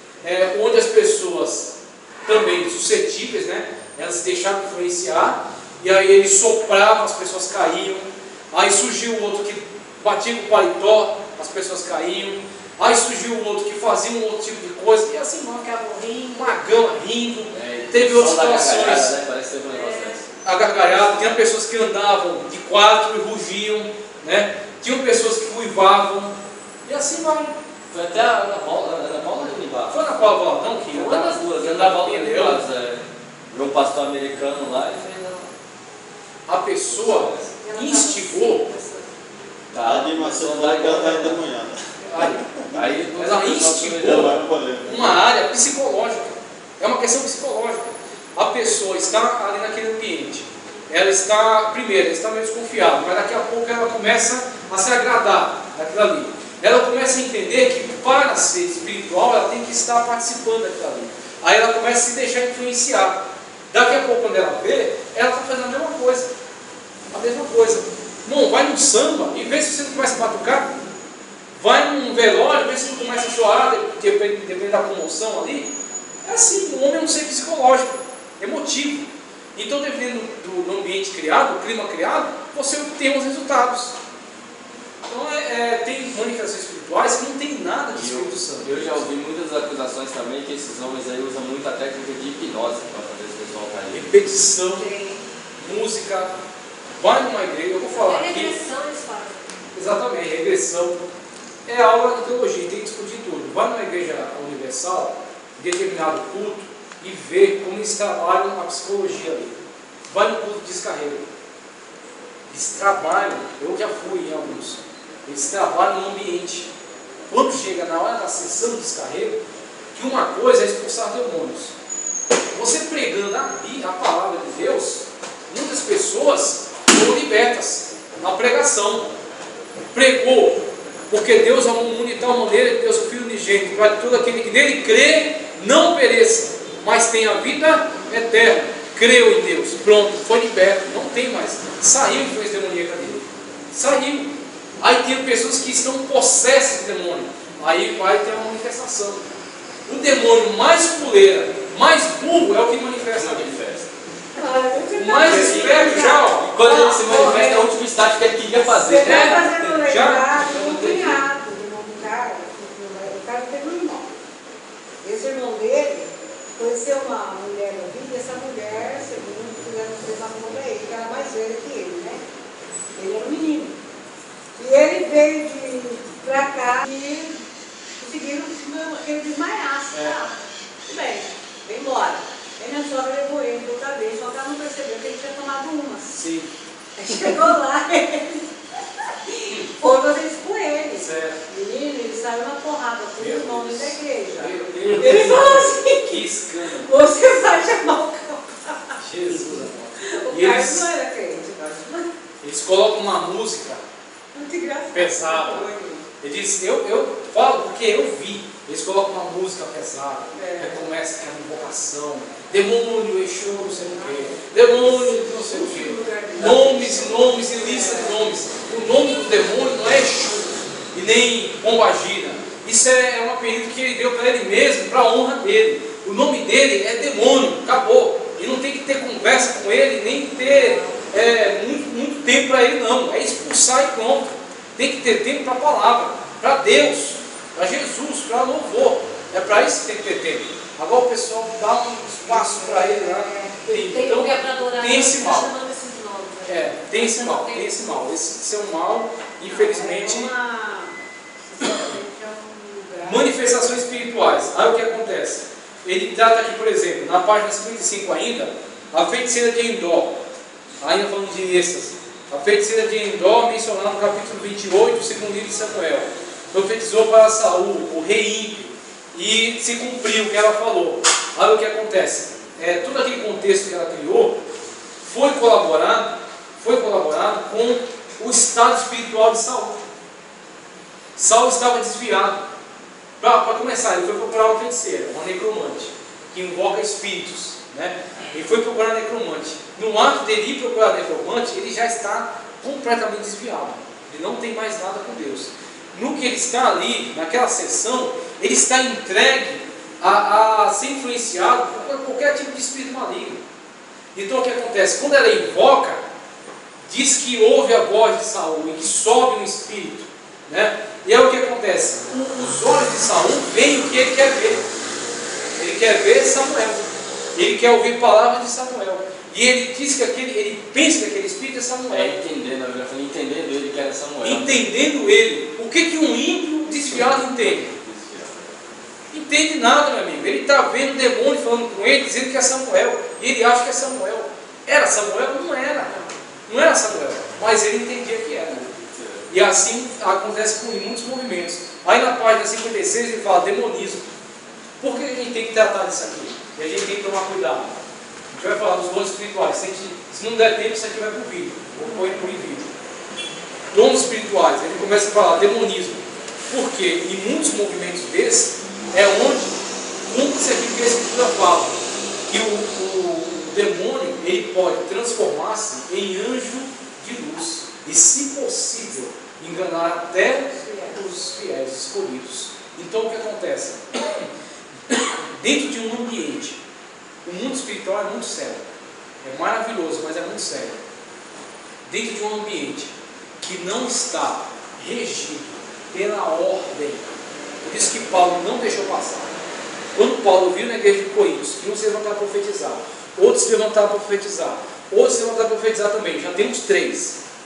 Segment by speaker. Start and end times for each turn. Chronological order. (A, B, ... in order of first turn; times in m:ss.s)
0:00.2-0:15.8 A
0:15.6-0:16.6 B
0:16.3-0:19.1 A
0:17.5-0:20.3 C
0:19.7-0:20.2 B
0:20.4-0:27.6 A
0:27.9-0:30.0 C
0:29.9-0:32.6 A
0:30.9-0:35.3 C
0:35.0-0:35.4 B
0:36.5-0:38.7 A
0:37.6-0:39.1 B
0:39.7-0:41.4 C
0:39.8-0:43.0 D
0:42.0-0:42.5 A
0:42.7-0:44.4 C
0:43.1-1:03.2 A
0:44.0-0:45.2 D
1:03.7-1:06.3 A
1:07.1-1:10.7 A
1:11.6-1:15.7 A
1:16.2-1:24.0 A
1:25.0-1:29.0 A
1:27.9-1:34.2 C
1:33.9-1:34.9 A
1:34.8-1:35.2 E
1:35.6-1:36.3 A
1:37.0-1:38.5 A
1:37.9-1:39.4 B
1:39.7-1:41.0 A
1:41.6-1:49.5 A
1:50.1-1:51.3 A
1:52.5-1:56.7 A
1:57.3-1:59.4 A
1:59.9-2:01.7 A
2:02.5-2:09.1 A
2:09.9-2:29.2 A
2:29.9-2:33.6 A
2:33.0-2:33.9 C
2:34.3-2:37.7 E
2:35.0-2:36.5 A
2:35.2-2:39.8 C
2:38.6-2:44.1 E
2:39.0-2:41.2 A
2:45.0-2:52.2 E
2:53.0-2:53.8 E
2:54.6-2:57.4 E
2:58.0-3:06.2 E
2:59.9-3:00.2 A
3:06.1-3:06.5 A
3:07.0-3:08.5 E
3:09.0-3:22.1 E
3:11.0-3:11.4 A
3:13.2-3:16.9 A
3:19.0-3:20.9 A
3:22.4-3:23.8 A
3:24.3-3:26.0 E
3:24.9-3:25.7 A
3:26.2-4:05.5 A
3:30.3-3:30.8 E
3:33.8-3:38.2 E
3:35.6-3:36.6 B
3:50.4-3:51.0 B
4:02.3-4:03.6 E
4:03.6-4:07.9 B
4:06.4-4:10.3 A
4:09.4-4:10.9 E
4:11.5-4:13.5 E
4:13.0-4:20.2 A
4:20.8-4:34.4 A
4:35.0-4:39.8 A
4:41.2-4:42.4 A
4:43.2-5:03.4 A
5:04.1-5:06.0 A
5:06.9-5:14.6 A
5:15.6-5:16.8 A
5:17.4-5:22.2 A
5:21.9-5:24.7 C
5:24.2-5:27.8 A
5:27.7-5:28.6 C
5:29.1-5:44.0 A
5:44.8-5:47.8 A
5:48.3-5:52.7 A
5:53.7-6:14.3 A
6:10.5-6:11.0 E
6:14.9-6:16.6 A
6:17.2-6:18.6 A
6:19.2-6:20.8 A
6:21.9-6:29.4 A
6:29.9-6:37.2 A